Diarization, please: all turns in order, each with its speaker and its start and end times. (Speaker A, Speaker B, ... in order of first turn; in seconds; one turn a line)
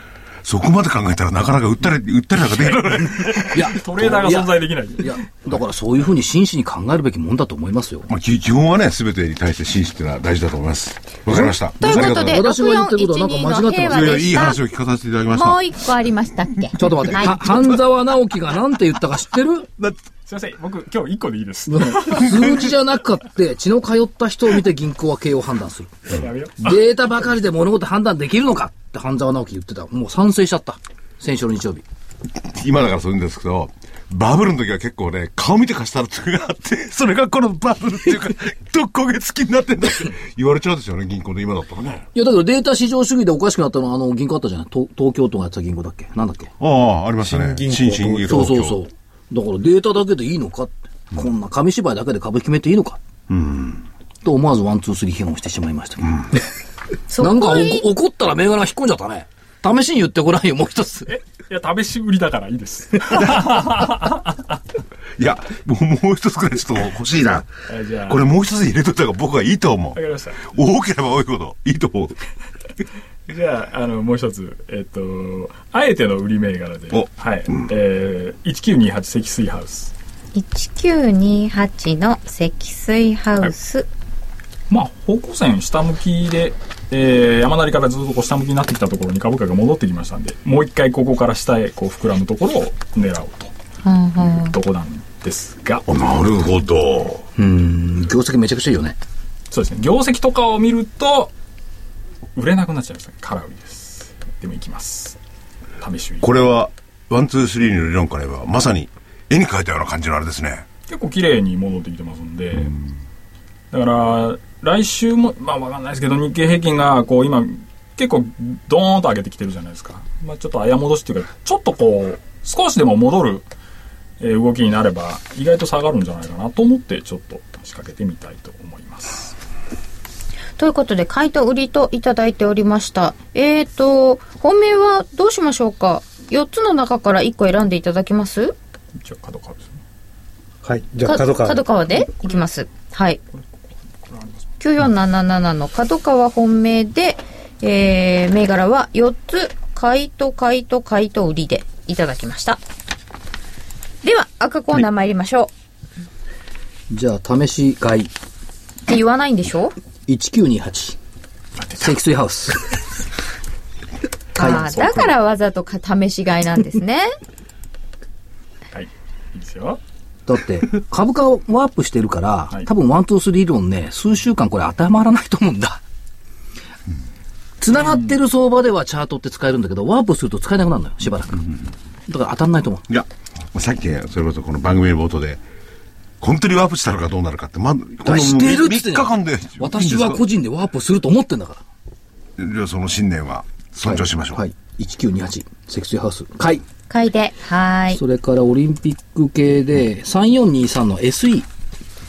Speaker A: 0.4-3.7
Speaker B: 3.2-5.2
Speaker C: 3.5-8.1
Speaker A: 8.1-12.4
Speaker C: 11.3-14.3
Speaker D: 11.8-14.6
Speaker A: 13.9-15.6
Speaker D: 15.3-17.6
Speaker C: 16.8-19.7
Speaker B: 20.3-22.4
Speaker C: 21.7-25.9
Speaker B: 26.1-26.8
Speaker C: 26.6-31.8
Speaker A: 32.4-42.1
Speaker C: 42.1-46.5
Speaker A: 46.6-48.8
Speaker E: 47.2-48.5
Speaker C: 48.3-53.0
Speaker A: 53.3-53.9
Speaker C: 54.2-56.3
Speaker D: 57.1-57.9
Speaker C: 57.2-61.1
Speaker B: 61.1-64.5
Speaker A: 65.2-67.5
Speaker B: 67.7-68.3
Speaker A: 68.1-72.2
Speaker B: 70.0-70.4
Speaker B: 73.3-79.9
Speaker A: 76.9-77.7
Speaker D: 80.3-83.9
Speaker B: 84.7-93.5
Speaker D: 93.8-94.5
Speaker B: 94.2-95.8
Speaker A: 95.9-97.3
Speaker C: 97.4-99.0
Speaker B: 99.5-101.3
Speaker B: 102.4-105.2
Speaker B: 105.8-106.3
Speaker A: 106.2-110.7
Speaker B: 110.9-112.7
Speaker B: 113.7-123.5
Speaker B: 124.2-129.4
Speaker D: 130.6-138.6
Speaker B: 138.9-139.8
Speaker E: 140.6-141.7
Speaker D: 141.1-143.2
Speaker B: 143.3-144.5
Speaker D: 144.6-152.6
Speaker D: 154.0-155.5
Speaker C: 156.9-158.1
Speaker D: 158.9-159.7
Speaker C: 160.1-161.0
Speaker B: 161.6-161.9
Speaker C: 161.8-162.8
Speaker D: 164.4-167.1
Speaker B: 164.4-165.2
Speaker C: 164.4-164.7
Speaker B: 168.7-169.8
Speaker C: 170.3-175.8
Speaker C: 177.6-181.4
Speaker B: 177.7-178.2
Speaker C: 182.1-182.9
Speaker A: 182.9-185.4
Speaker A: 186.2-190.2
Speaker C: 188.1-191.6
Speaker A: 192.4-194.4
Speaker C: 193.8-196.6
Speaker D: 196.9-198.0
Speaker C: 197.9-201.5